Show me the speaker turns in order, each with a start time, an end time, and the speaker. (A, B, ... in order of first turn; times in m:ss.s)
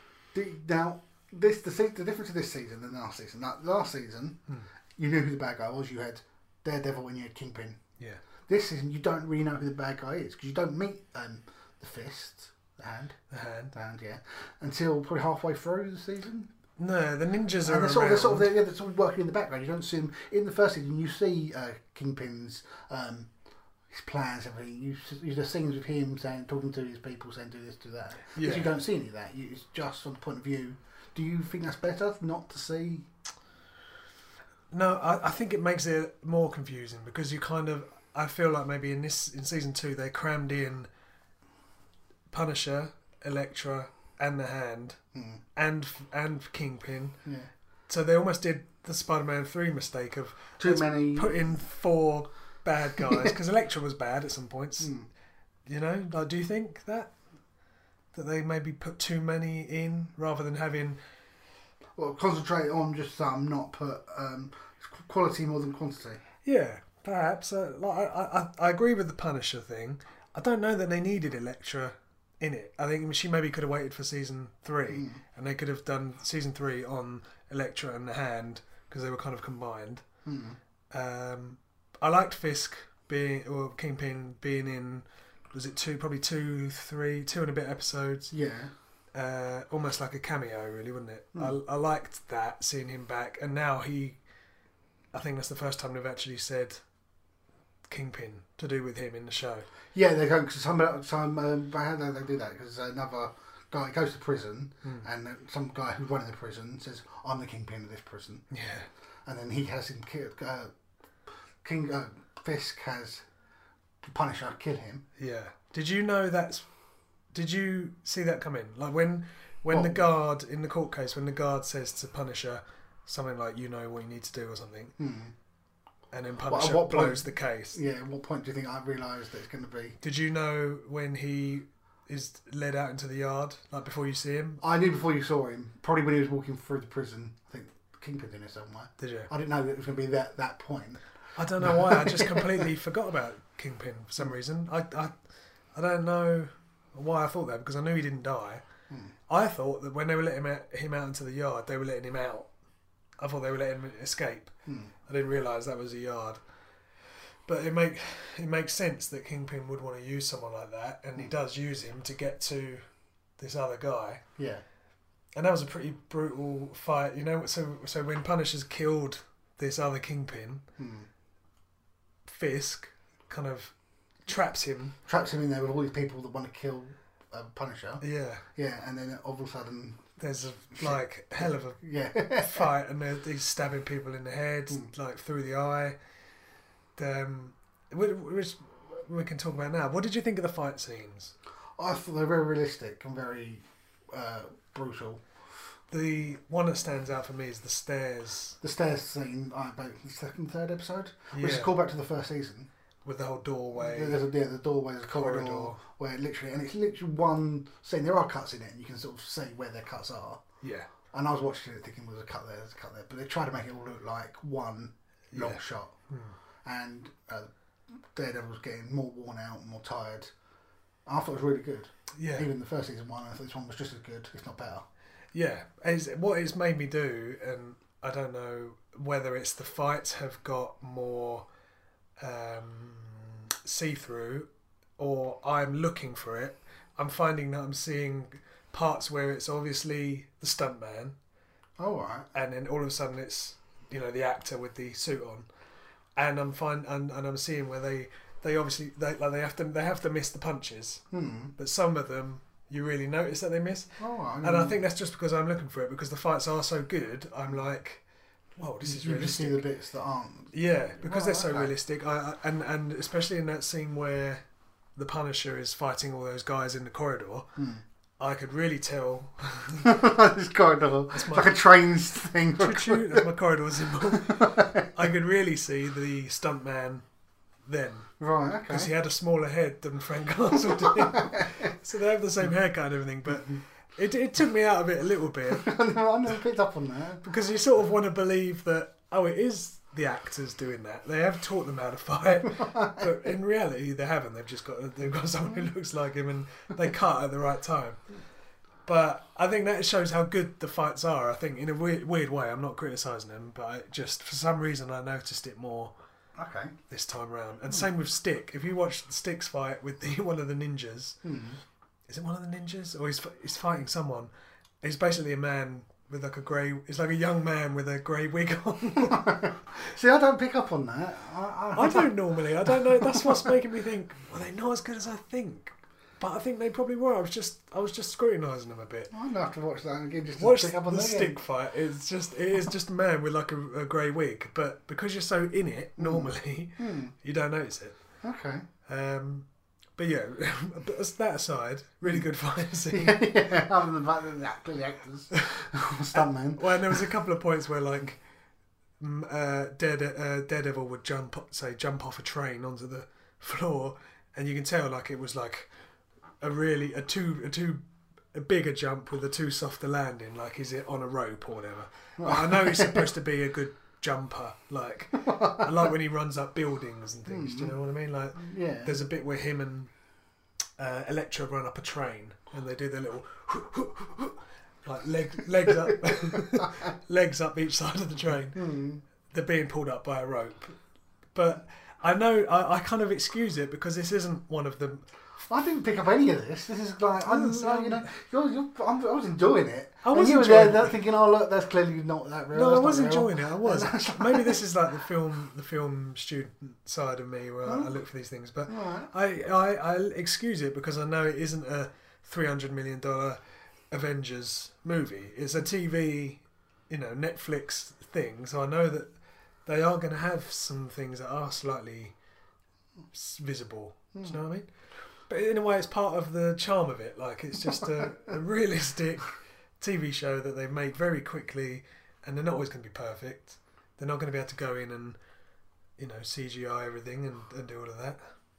0:00.3-0:04.4 A
0:05.0-0:07.8 A
0:08.5-0:13.2 A
0:13.3-0:13.7 B
0:13.7-0:16.5 A
0:16.8-0:18.5 B
0:17.6-0:23.3 A
0:23.9-0:33.1 A
0:28.4-0:28.7 B
0:34.7-0:40.9 B
0:42.3-0:45.0 B
0:45.1-0:45.4 A
0:45.6-0:47.2 B
0:47.2-0:47.5 A
0:47.9-0:54.9 B
0:50.6-0:51.3 A
0:54.8-0:55.1 A
0:55.7-0:57.1 B
0:58.1-1:01.0 B
1:02.0-1:06.2 A
1:06.4-1:20.0 B
1:14.9-1:15.2 A
1:20.2-1:20.6 A
1:20.9-1:28.3 B
1:28.3-1:28.7 A
1:29.1-1:34.2 B
1:35.1-1:36.8 B
1:37.9-1:39.7 B
1:39.9-1:48.5 A
1:48.5-1:48.9 B
1:49.3-1:50.7 A
1:51.6-1:53.3 A
1:54.0-1:55.0 A
1:55.2-1:56.7 B
1:57.3-2:04.9 B
1:59.7-2:00.0 A
2:05.0-2:05.3 A
2:06.1-2:07.8 B
2:06.5-2:10.0 A
2:10.0-2:14.6 B
2:14.6-2:21.0 A
2:19.0-2:19.3 B
2:21.4-2:25.2 B
2:21.6-2:22.6 A
2:25.7-2:28.6 B
2:29.3-2:32.5 B
2:33.2-2:34.5 B
2:34.7-2:34.9 A
2:35.1-2:36.4 B
2:37.0-2:42.8 B
2:43.4-2:44.2 B
2:44.4-2:44.6 A
2:45.4-2:50.6 B
2:50.8-2:51.1 A
2:52.2-2:53.7 B
2:54.3-2:55.0 B
2:55.1-2:58.0 A
2:58.0-2:58.4 B
2:58.6-3:00.1 A
3:00.2-3:01.8 B
3:00.7-3:02.7 A
3:02.3-3:06.0 B
3:07.0-3:11.4 B
3:11.8-3:15.2 A
3:15.9-3:18.6 B
3:18.6-3:22.7 A
3:21.3-3:21.8 B
3:23.0-3:24.2 B
3:23.8-3:30.4 A
3:25.1-3:25.8 B
3:30.6-3:30.9 B
3:31.1-3:36.0 A
3:35.3-3:36.4 B
3:36.6-3:37.5 A
3:38.1-3:40.3 A
3:41.1-3:44.9 A
3:42.2-3:42.5 B
3:45.3-3:51.5 B
3:52.2-4:01.2 B
4:01.8-4:02.3 A
4:02.3-4:05.5 B
4:06.2-4:11.0 B
4:11.1-4:11.5 A
4:11.6-4:18.0 B
4:14.0-4:14.8 A
4:18.6-4:19.6 B
4:18.8-4:21.7 A
4:20.5-4:24.4 B
4:25.0-4:27.5 B
4:27.6-4:27.8 A
4:28.2-4:30.0 B
4:29.8-4:33.3 A
4:31.1-4:31.6 B
4:32.6-4:37.0 B
4:34.0-4:34.9 A
4:37.6-4:38.1 B
4:38.2-4:38.9 A
4:38.7-4:45.7 B
4:40.8-4:41.7 A
4:45.5-4:47.2 A
4:47.2-4:58.0 B
4:52.6-4:53.0 A
4:58.8-5:05.9 B
5:06.4-5:06.8 A
5:06.9-5:11.2 B
5:11.2-5:11.6 A
5:12.1-5:14.3 B
5:14.8-5:19.4 B
5:19.0-5:23.5 A
5:21.8-5:29.1 B
5:29.1-5:31.4 A
5:30.4-5:38.0 B
5:36.0-5:37.1 A
5:38.2-5:38.6 A
5:38.9-5:43.2 B
5:42.9-5:47.1 A
5:46.1-5:48.2 B
5:49.0-5:55.7 B
5:56.4-5:57.8 B
5:58.3-6:09.9 B
6:02.2-6:03.1 A
6:05.2-6:05.7 A
6:07.3-6:07.8 A
6:08.4-6:09.0 A
6:10.8-6:18.6 B
6:18.6-6:19.0 A
6:19.3-6:20.8 B
6:21.3-6:25.1 B
6:25.4-6:34.6 A
6:27.2-6:28.1 B
6:30.0-6:31.0 B
6:32.5-6:49.1 B
6:37.7-6:38.0 A
6:38.7-6:39.1 A
6:49.7-6:52.2 B
6:53.1-6:54.7 B
6:55.3-7:05.2 B
7:06.0-7:08.2 B